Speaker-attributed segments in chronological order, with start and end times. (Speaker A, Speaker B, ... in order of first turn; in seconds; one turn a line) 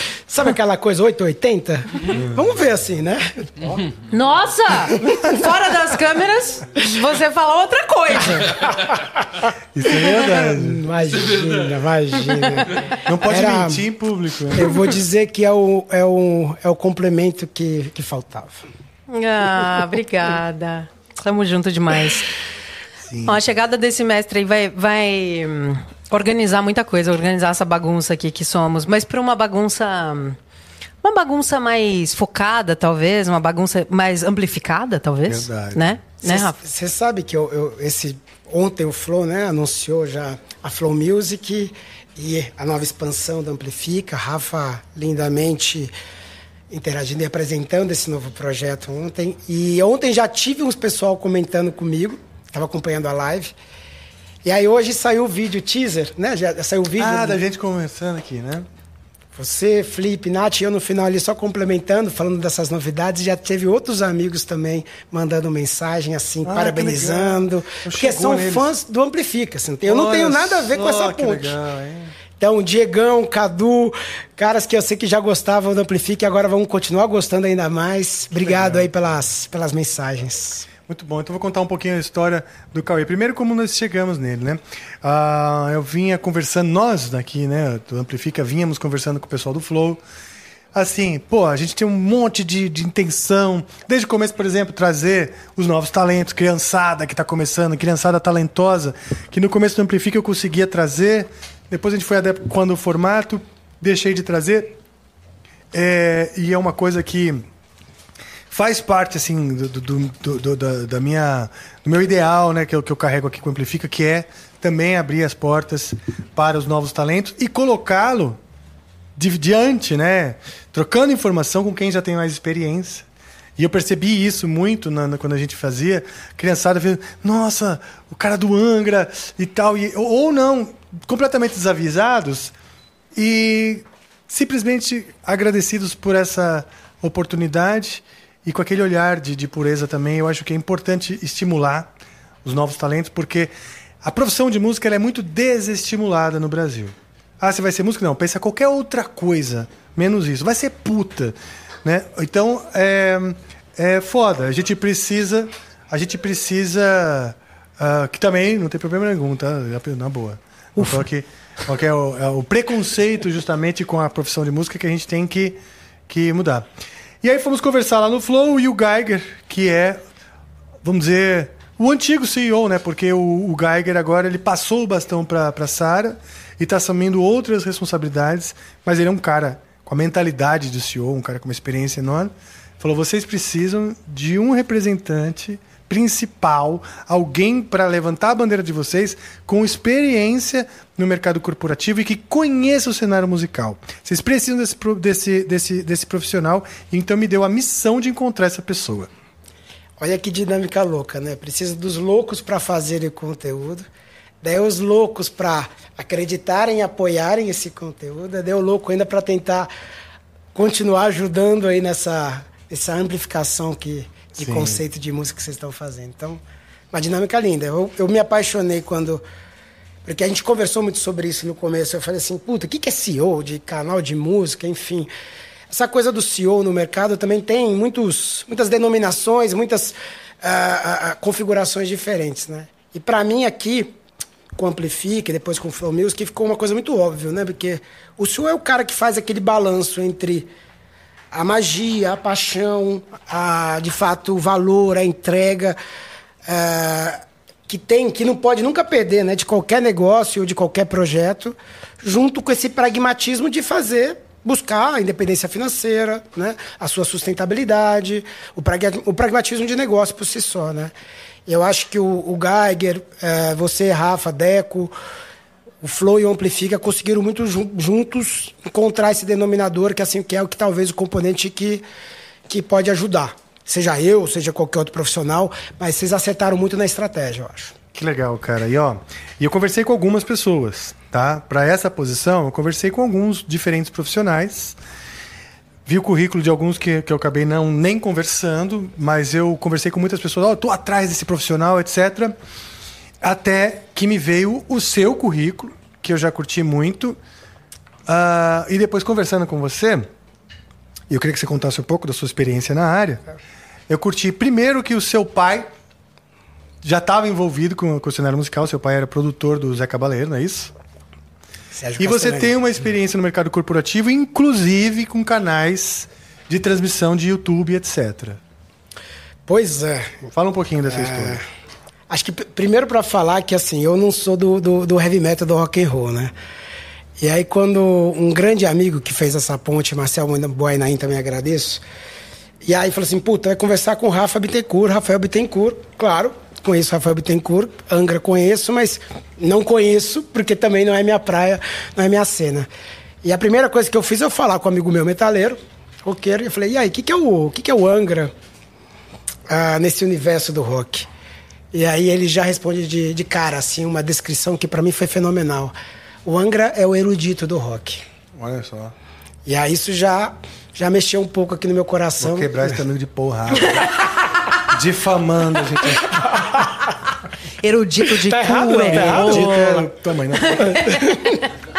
Speaker A: 0.3-3.8
Speaker B: 2.1-2.4
Speaker C: 4.1-8.7
Speaker A: 5.0-5.5
Speaker A: 8.8-9.4
Speaker B: 9.7-10.8
Speaker A: 10.0-13.8
Speaker B: 13.1-14.8
Speaker A: 14.5-18.6
Speaker C: 19.1-22.3
Speaker B: 23.0-23.4
Speaker C: 23.2-30.4
Speaker C: 31.0-36.6
Speaker B: 35.3-36.0
Speaker A: 36.2-45.9
Speaker A: 46.7-53.5
Speaker A: 54.4-57.4
Speaker B: 57.0-58.7
Speaker A: 59.3-71.6
Speaker B: 66.4-68.7
Speaker B: 69.8-72.2
Speaker A: 72.4-80.7
Speaker B: 78.4-78.9
Speaker B: 80.9-90.0
Speaker B: 90.7-104.8
Speaker B: 105.7-107.4
Speaker B: 108.5-118.4
Speaker B: 119.2-123.0
Speaker B: 123.6-132.5
Speaker B: 133.1-141.9
Speaker B: 142.4-166.7
Speaker B: 167.2-170.0
Speaker B: 170.8-199.1
Speaker A: 200.0-203.8
Speaker A: 204.4-209.7
Speaker A: 210.5-216.4
Speaker B: 214.4-214.8
Speaker A: 216.9-219.2
Speaker A: 220.0-225.1
Speaker A: 225.7-233.9
Speaker A: 234.5-240.5
Speaker A: 241.3-245.8
Speaker A: 246.4-260.9
Speaker A: 261.5-264.9
Speaker A: 265.8-271.8
Speaker A: 272.5-277.8
Speaker B: 277.9-284.8
Speaker B: 285.9-292.3
Speaker B: 293.2-297.2
Speaker B: 298.1-300.1
Speaker B: 301.1-303.2
Speaker B: 303.9-305.7
Speaker B: 306.8-310.7
Speaker A: 311.7-312.6
Speaker B: 312.0-318.4
Speaker A: 319.4-320.3
Speaker B: 320.3-321.4
Speaker A: 320.9-321.4
Speaker A: 322.1-326.3
Speaker A: 327.2-331.8
Speaker A: 332.6-342.7
Speaker A: 343.2-348.3
Speaker A: 349.5-351.1
Speaker A: 351.7-358.0
Speaker B: 358.4-358.9
Speaker A: 359.4-362.6
Speaker B: 362.2-363.9
Speaker A: 363.6-363.9
Speaker B: 364.7-366.4
Speaker A: 366.2-366.9
Speaker C: 367.6-369.7
Speaker A: 368.1-369.9
Speaker B: 368.9-371.0
Speaker A: 370.5-371.4
Speaker C: 370.6-370.9